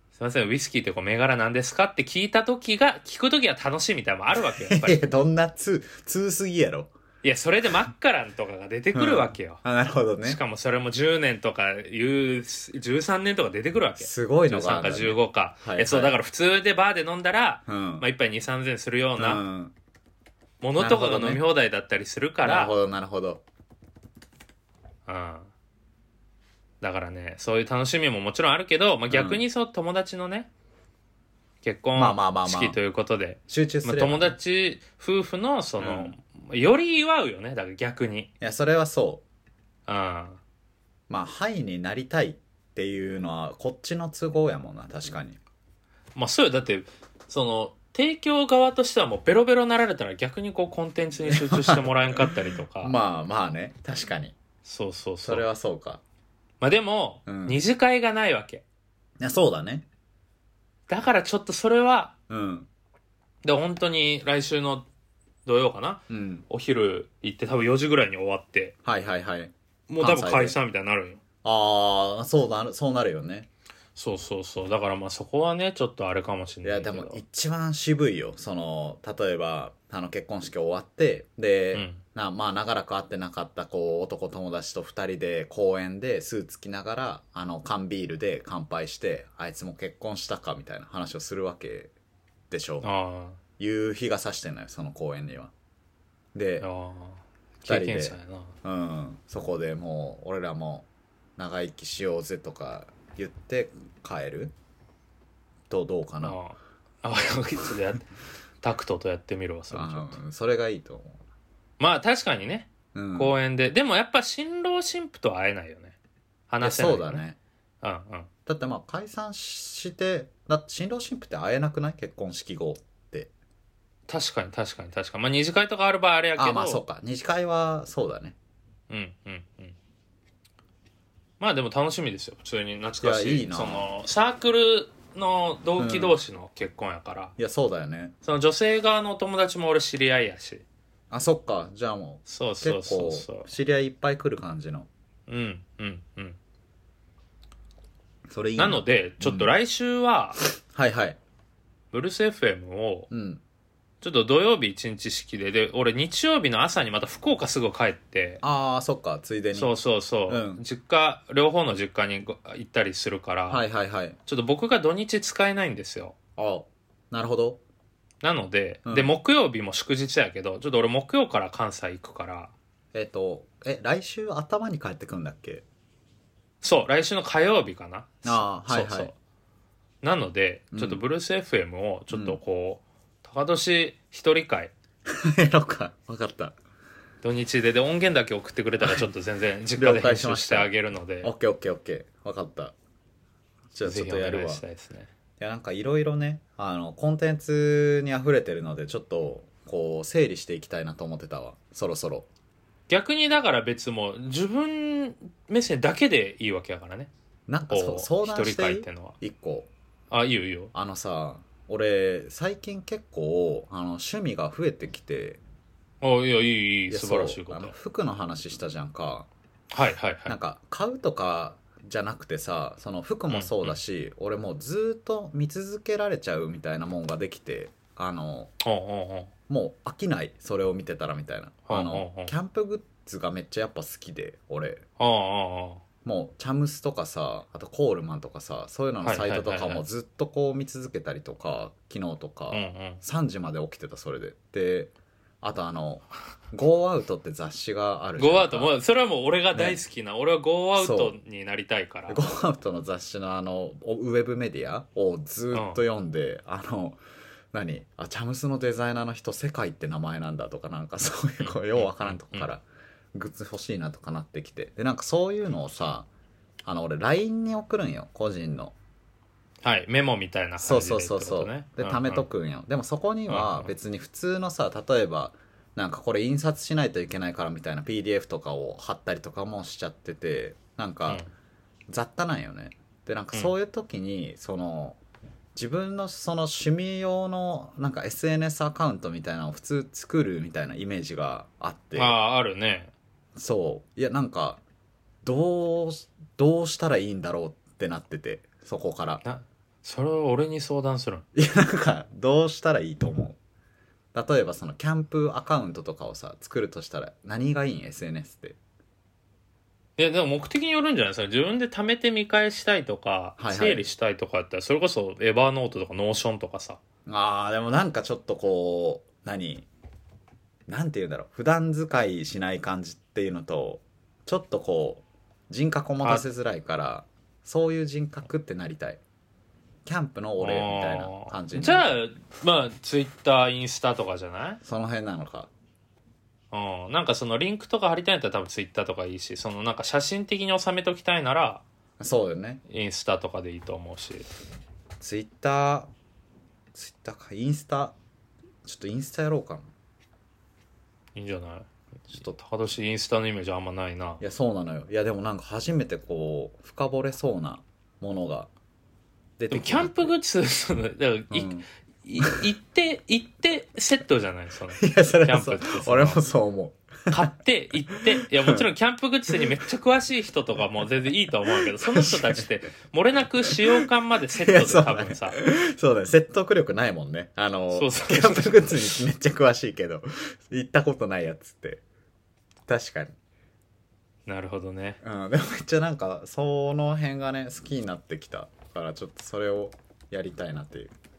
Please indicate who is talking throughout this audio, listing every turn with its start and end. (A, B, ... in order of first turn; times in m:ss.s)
0:00.2-0:05.0 A
0:04.4-0:06.9 B
0:07.2-0:09.6 A
0:08.9-0:10.4 B
0:10.2-0:19.4 A
0:14.0-0:16.2 B
0:17.7-0:18.0 B
0:19.2-0:19.7 B
0:20.6-0:22.8 A
0:20.8-0:21.4 B
0:22.4-0:23.4 B
0:25.1-0:25.5 A
0:26.8-0:30.5 A
0:29.1-0:29.4 B
0:31.6-0:38.3 A
0:32.0-0:32.8 B
0:33.5-0:34.4 B
0:35.8-0:36.1 B
0:38.4-0:39.2 B
0:39.9-0:40.4 A
0:41.1-0:45.4 B
0:46.2-0:53.0 A
0:51.3-0:54.4 B
0:54.6-0:55.5 A
0:55.2-0:56.0 B
0:56.6-0:58.6 A
0:57.3-0:57.6 B
0:59.2-0:59.8 B
1:00.9-1:02.1 A
1:02.3-1:02.7 B
1:03.4-1:04.9 A
1:05.4-1:08.7 A
1:06.1-1:06.4 B
1:08.8-1:10.6 B
1:09.9-1:11.2 A
1:11.4-1:13.5 B
1:14.0-1:17.2 A
1:16.6-1:31.9 B
1:21.7-1:22.0 A
1:32.5-1:32.9 B
1:32.8-1:33.4 A
1:33.6-1:35.5 B
1:36.3-1:36.7 B
1:36.6-1:38.6 A
1:37.7-1:44.5 B
1:45.7-1:46.4 B
1:46.2-1:48.1 A
1:48.6-1:50.2 A
1:49.7-1:51.2 B
1:51.8-1:56.0 A
1:52.9-1:53.3 B
1:56.5-1:57.2 A
1:56.6-1:57.4 B
1:57.8-1:58.3 A
1:58.5-2:03.3 B
2:04.1-2:06.8 A
2:06.4-2:08.4 B
2:08.9-2:09.8 A
2:11.4-2:17.3 A
2:13.0-2:13.9 B
2:15.8-2:16.2 B
2:17.4-2:18.2 B
2:18.2-2:20.6 A
2:21.1-2:24.9 B
2:22.3-2:23.5 A
2:25.3-2:26.4 A
2:28.3-2:29.5 B
2:28.6-2:30.4 A
2:30.6-2:31.2 B
2:31.9-2:33.1 A
2:33.1-2:33.4 B
2:34.0-2:38.4 A
2:38.4-2:39.7 B
2:39.5-2:43.6 A
2:40.3-2:40.6 B
2:43.5-2:44.2 B
2:44.3-2:46.2 A
2:46.4-2:47.6 B
2:48.2-2:52.5 A
2:48.9-2:49.1 B
2:52.9-2:55.6 B
2:56.6-2:59.1 A
2:58.2-2:59.1 B
3:00.0-3:04.7 A
3:00.7-3:01.0 B
3:02.1-3:02.4 B
3:05.1-3:06.6 B
3:07.2-3:11.3 A
3:08.8-3:09.1 B
3:09.8-3:10.7 B
3:11.2-3:12.8 B
3:13.7-3:14.6 B
3:13.8-3:15.1 A
3:15.4-3:22.3 B
3:22.9-3:27.1 A
3:27.5-3:29.7 B
3:27.7-3:29.2 A
3:30.1-3:30.7 A
3:30.7-3:35.4 B
3:36.0-3:37.7 A
3:36.9-3:39.3 B
3:39.7-3:40.4 A
3:40.3-3:48.5 B
3:43.3-3:43.8 A
3:48.6-3:49.3 A
3:49.5-3:54.8 B
3:51.7-3:52.3 A
3:55.0-3:55.8 A
3:56.0-4:08.7 B
3:59.0-3:59.8 A
4:02.5-4:03.0 A
4:08.2-4:12.2 A
4:10.8-4:11.2 B
4:12.1-4:17.0 B
4:15.5-4:15.8 A
4:17.5-4:26.1 B
4:21.4-4:22.5 A
4:26.6-4:28.8 B
4:29.6-4:32.3 A
4:30.6-4:41.2 B
4:33.3-4:33.7 A
4:41.9-4:45.0 B
4:45.6-4:52.2 B
4:52.0-4:52.9 A
4:53.4-4:54.6 B
4:55.2-4:59.2 B
4:59.2-5:01.3 A
5:01.4-5:03.4 B
5:04.1-5:08.6 B
5:10.0-5:16.8 A
5:13.4-5:13.9 B
5:17.1-5:19.7 B
5:20.7-5:29.0 B
5:26.0-5:26.3 A
5:29.8-5:31.9 B
5:30.4-5:34.6 A
5:34.6-5:35.5 B
5:36.5-5:41.6 A
5:42.0-5:42.6 B
5:42.7-5:44.3 A
5:45.0-5:45.9 B
5:46.7-5:48.0 B
5:48.6-5:49.7 B
5:51.2-5:54.2 A
5:54.2-5:58.5 B
5:59.4-6:00.2 B
5:59.5-6:06.2 A
6:01.3-6:01.6 B
6:04.8-6:07.3 B
6:07.1-6:15.4 A
6:08.0-6:08.6 B
6:11.6-6:12.5 B
6:13.4-6:13.8 B
6:14.4-6:21.8 B
6:17.7-6:19.0 A
6:22.7-6:23.2 B
6:24.3-6:25.0 A
6:25.0-6:30.9 B